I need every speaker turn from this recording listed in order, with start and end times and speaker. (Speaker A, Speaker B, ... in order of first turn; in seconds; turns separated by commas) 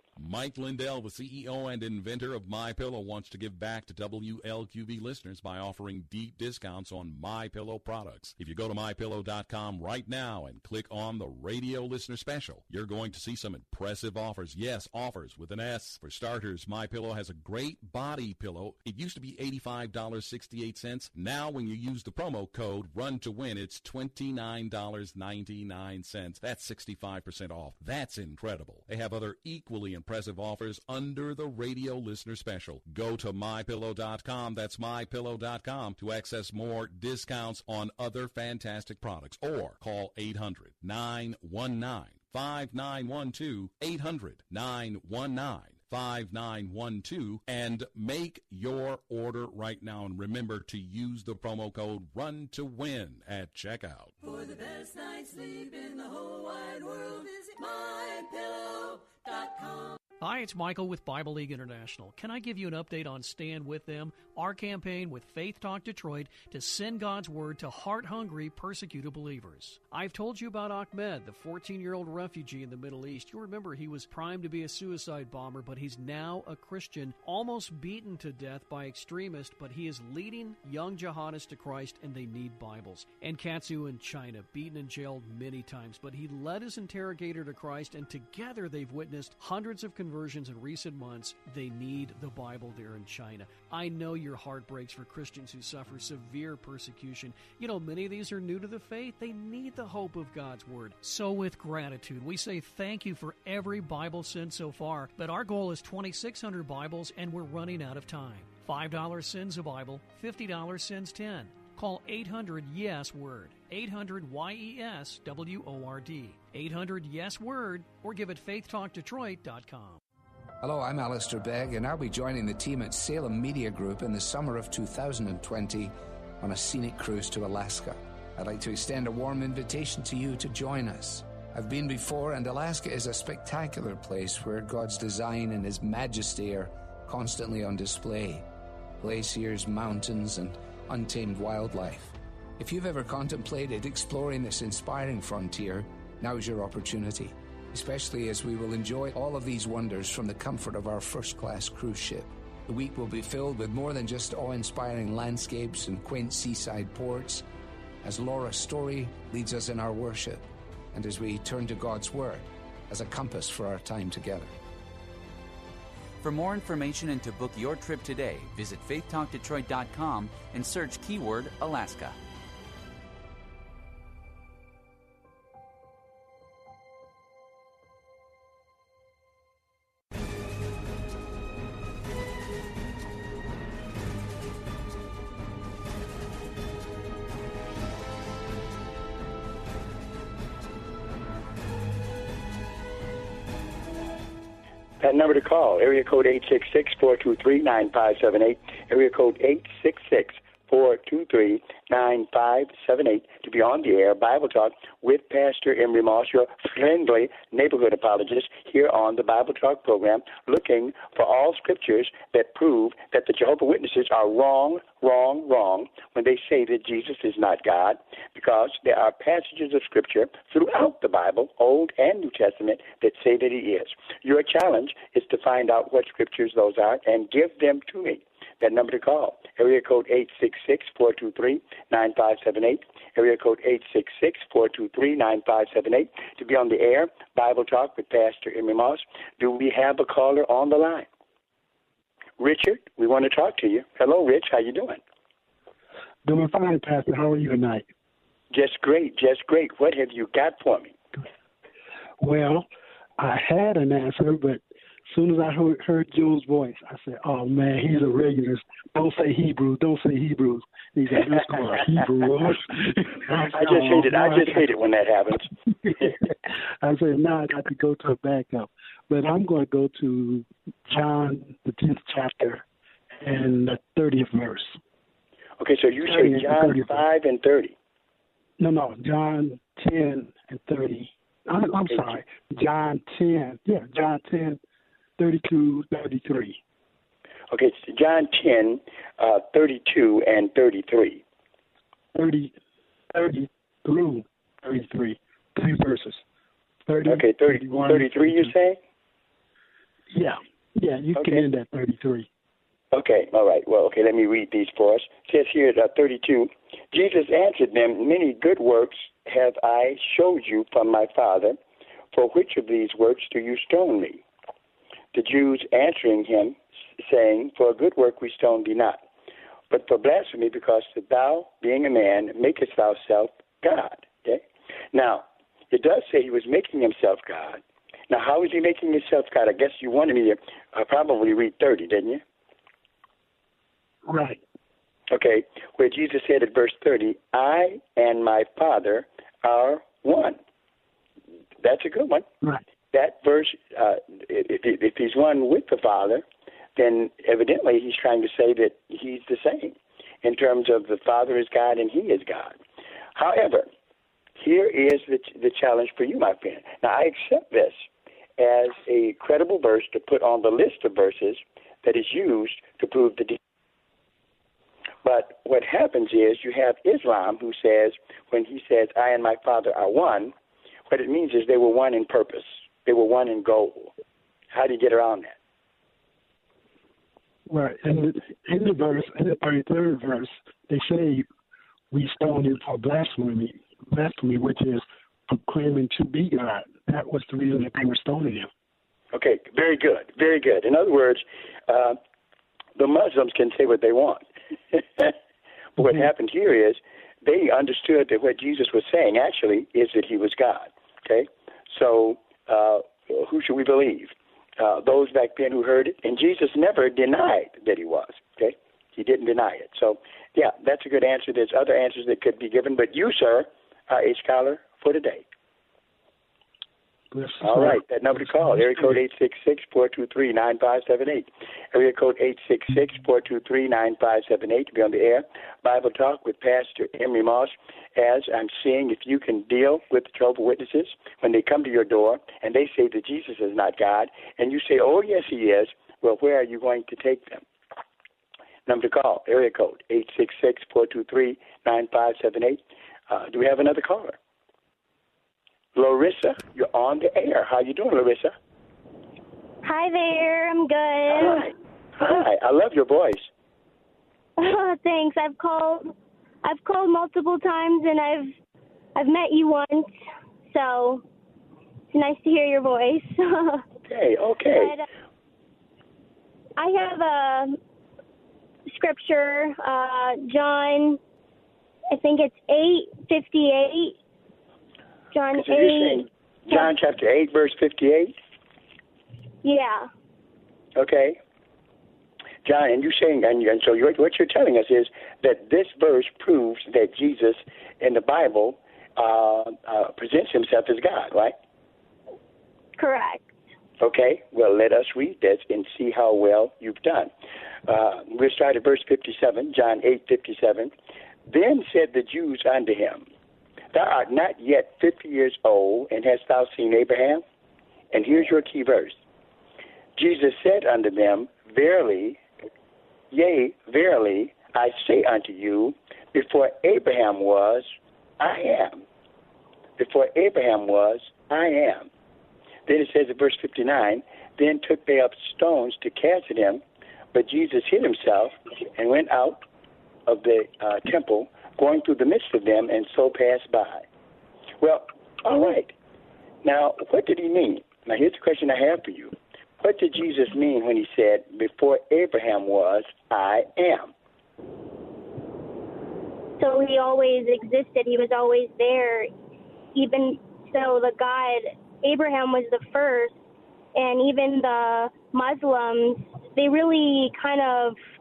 Speaker A: 0.2-54.2, Speaker B: 54.5-58.6, Speaker C: 60.2-120.0, Speaker D: 120.6-138.5, Speaker D: 139.0-157.4, Speaker D: 158.0-164.5, Speaker E: 166.2-172.2, Speaker F: 195.0-241.1, Speaker F: 242.4-245.0, Speaker G: 246.2-247.9, Speaker F: 248.5-250.9, Speaker G: 252.2-252.7, Speaker G: 253.2-264.7, Speaker F: 263.5-265.5, Speaker G: 265.8-266.3, Speaker G: 266.8-272.6, Speaker G: 273.2-274.8, Speaker F: 275.6-277.8, Speaker G: 276.0-277.0, Speaker G: 278.6-284.6, Speaker F: 281.9-282.2, Speaker G: 285.2-286.6, Speaker F: 287.5-291.2, Speaker G: 292.1-292.5, Speaker G: 293.1-296.2, Speaker G: 296.9-298.5, Speaker F: 297.1-298.8, Speaker G: 300.1-302.3, Speaker F: 301.1-301.5, Speaker F: 302.9-311.6, Speaker F: 312.1-314.2, Speaker F: 315.1-319.1, Speaker F: 319.7-332.2, Speaker G: 334.1-334.4, Speaker F: 335.1-340.4, Speaker F: 341.6-342.3, Speaker F: 342.9-346.2, Speaker F: 346.8-352.6, Speaker F: 353.2-353.7, Speaker F: 354.4-357.9, Speaker F: 358.4-363.4, Speaker F: 365.0-370.3, Speaker F: 370.9-373.9, Speaker F: 374.5-375.4, Speaker G: 377.5-381.3, Speaker G: 381.9-388.5, Speaker F: 389.1-392.0, Speaker F: 392.8-395.1, Speaker G: 395.8-396.1, Speaker F: 395.8-415.2, Speaker G: 417.1-419.0, Speaker F: 417.4-437.4, Speaker F: 438.7-444.2, Speaker F: 445.8-448.3, Speaker H: 449.6-451.5, Speaker F: 451.1-453.3, Speaker H: 454.4-455.9, Speaker H: 456.4-458.3, Speaker H: 459.0-459.9, Speaker H: 460.5-461.0, Speaker H: 461.9-463.6, Speaker F: 463.9-464.7, Speaker H: 464.5-464.8, Speaker H: 466.6-467.6, Speaker H: 468.7-471.0, Speaker H: 471.9-474.0, Speaker H: 475.1-476.7, Speaker F: 475.3-478.1, Speaker H: 479.4-479.9, Speaker F: 480.8-481.2, Speaker F: 482.4-491.4, Speaker H: 492.8-493.3, Speaker F: 493.8-497.1, Speaker F: 497.7-500.7, Speaker F: 501.3-503.1, Speaker F: 503.7-507.2, Speaker F: 507.9-509.0, Speaker F: 510.0-512.2, Speaker F: 513.1-518.8, Speaker F: 519.8-521.9, Speaker F: 522.7-526.6, Speaker F: 527.1-529.5, Speaker F: 530.1-533.9, Speaker F: 534.6-535.7, Speaker F: 536.4-543.9, Speaker H: 546.4-549.1, Speaker H: 549.8-553.2, Speaker H: 553.8-557.8